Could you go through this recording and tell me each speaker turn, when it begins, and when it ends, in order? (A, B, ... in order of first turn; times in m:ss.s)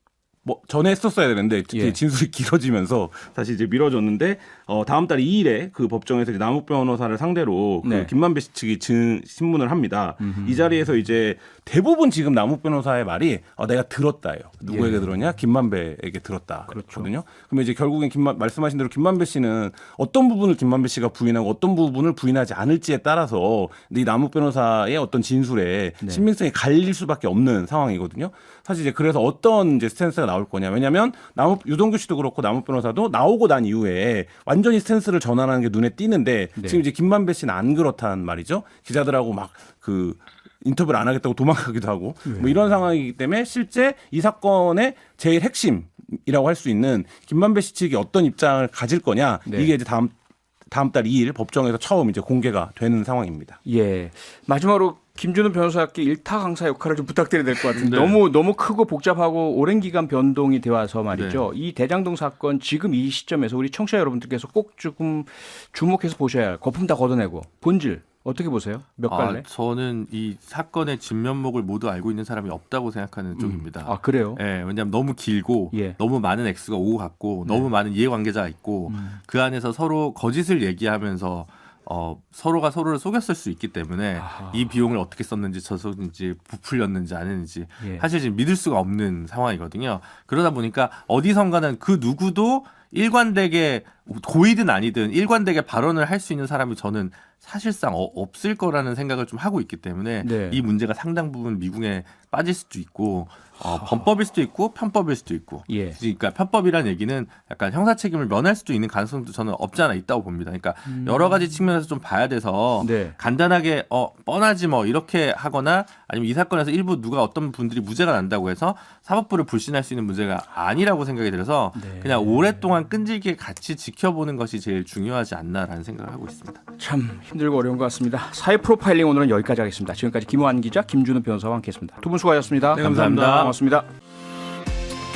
0:00.4-0:50.2 A
0:01.7-0:02.0 B
0:07.8-0:08.1 B
0:10.2-0:10.6 B
0:14.7-0:15.1 B
0:16.7-0:17.1 B
0:36.6-0:36.8 B
0:42.2-0:42.6 B
0:49.5-0:49.7 B
0:50.7-0:53.6 A
0:53.6-1:09.5 B
0:57.7-0:58.2 C
1:01.1-1:01.5 C
1:09.1-2:06.6 C
1:13.4-1:14.4 B
1:15.7-1:16.0 B
1:18.9-1:19.2 B
1:24.2-1:24.7 B
1:40.2-1:40.6 B
1:43.7-1:44.0 B
1:45.7-1:46.0 B
1:50.9-1:51.4 B
1:52.8-1:53.2 B
2:01.8-2:02.5 B
2:06.8-2:13.9 B
2:12.7-2:13.6 C
2:12.8-2:13.5 A